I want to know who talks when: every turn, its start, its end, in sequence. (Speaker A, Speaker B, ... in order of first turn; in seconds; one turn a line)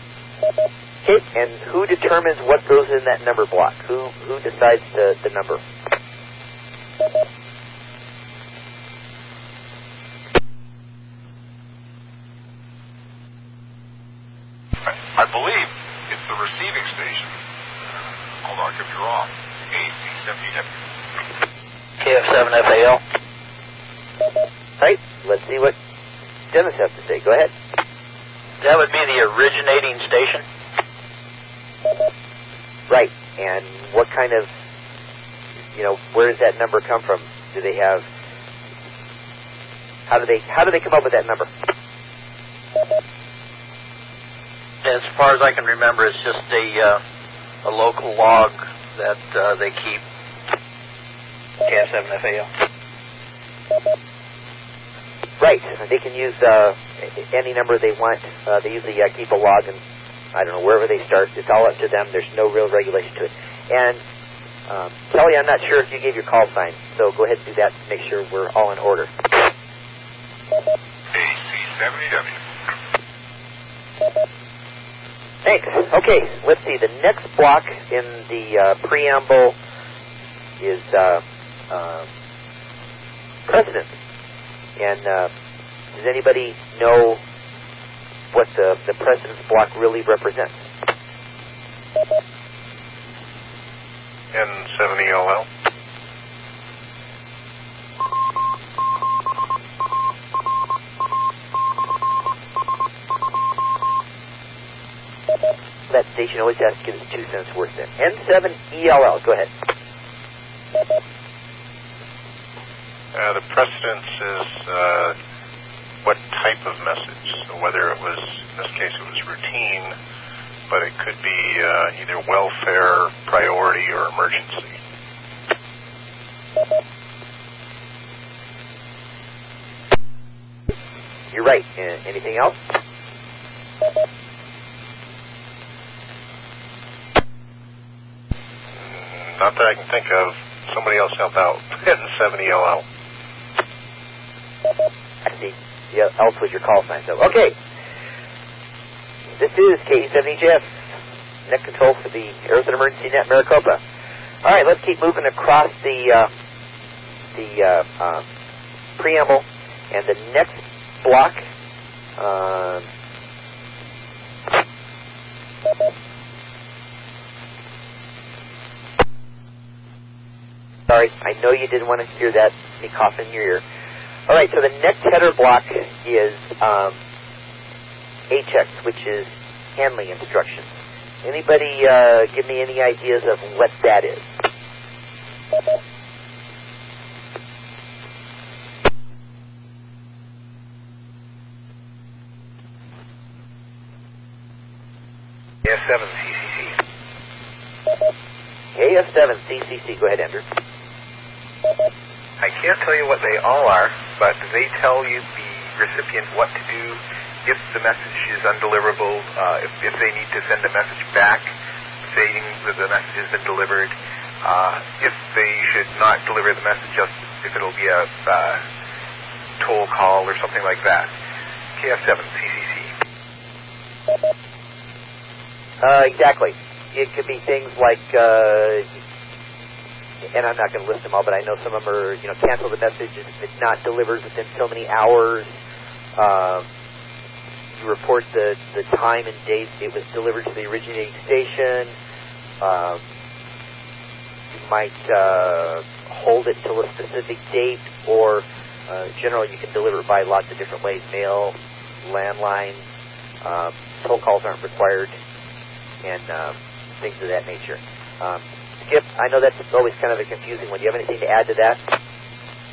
Speaker A: 1.0-5.6
Speaker B: 15.2-17.3
Speaker B: 18.4-19.2
Speaker B: 19.7-20.6
Speaker C: 22.1-22.9
Speaker A: 24.8-25.7
Speaker A: 26.5-27.5
Speaker C: 28.6-30.4
Speaker A: 32.9-34.5
Speaker A: 35.7-38.0
Speaker A: 40.1-41.5
Speaker C: 44.9-46.8
Speaker C: 47.6-49.9
Speaker C: 51.7-52.4
Speaker A: 55.4-59.8
Speaker A: 60.3-64.0
Speaker A: 64.7-69.1
Speaker B: 71.1-72.3
Speaker A: 75.4-79.5
Speaker A: 80.6-82.1
Speaker A: 83.5-83.9
Speaker A: 84.8-85.3
Speaker A: 85.9-87.2
Speaker A: 88.3-90.6
Speaker D: 94.3-95.5
Speaker A: 105.9-109.5
Speaker D: 113.1-115.2
Speaker D: 116.0-119.9
Speaker D: 120.7-124.8
Speaker A: 131.3-132.6
Speaker D: 138.8-142.8
Speaker A: 145.2-147.6
Speaker A: 149.4-150.8
Speaker A: 151.5-153.8
Speaker A: 154.4-156.3
Speaker A: 157.3-158.2
Speaker A: 159.0-161.4
Speaker A: 162.2-162.8
Speaker A: 170.9-173.6
Speaker A: 174.3-177.0
Speaker A: 178.3-180.7
Speaker A: 181.2-184.3
Speaker E: 195.6-196.8
Speaker A: 198.8-200.4
Speaker E: 202.4-211.5
Speaker E: 212.1-218.6
Speaker E: 219.6-221.1
Speaker E: 221.8-222.9
Speaker A: 225.8-228.8
Speaker A: 230.3-235.5
Speaker A: 236.2-236.7
Speaker A: 237.8-241.9
Speaker A: 242.6-243.0
Speaker A: 244.5-252.8
Speaker A: 253.4-255.1
Speaker A: 256.0-261.8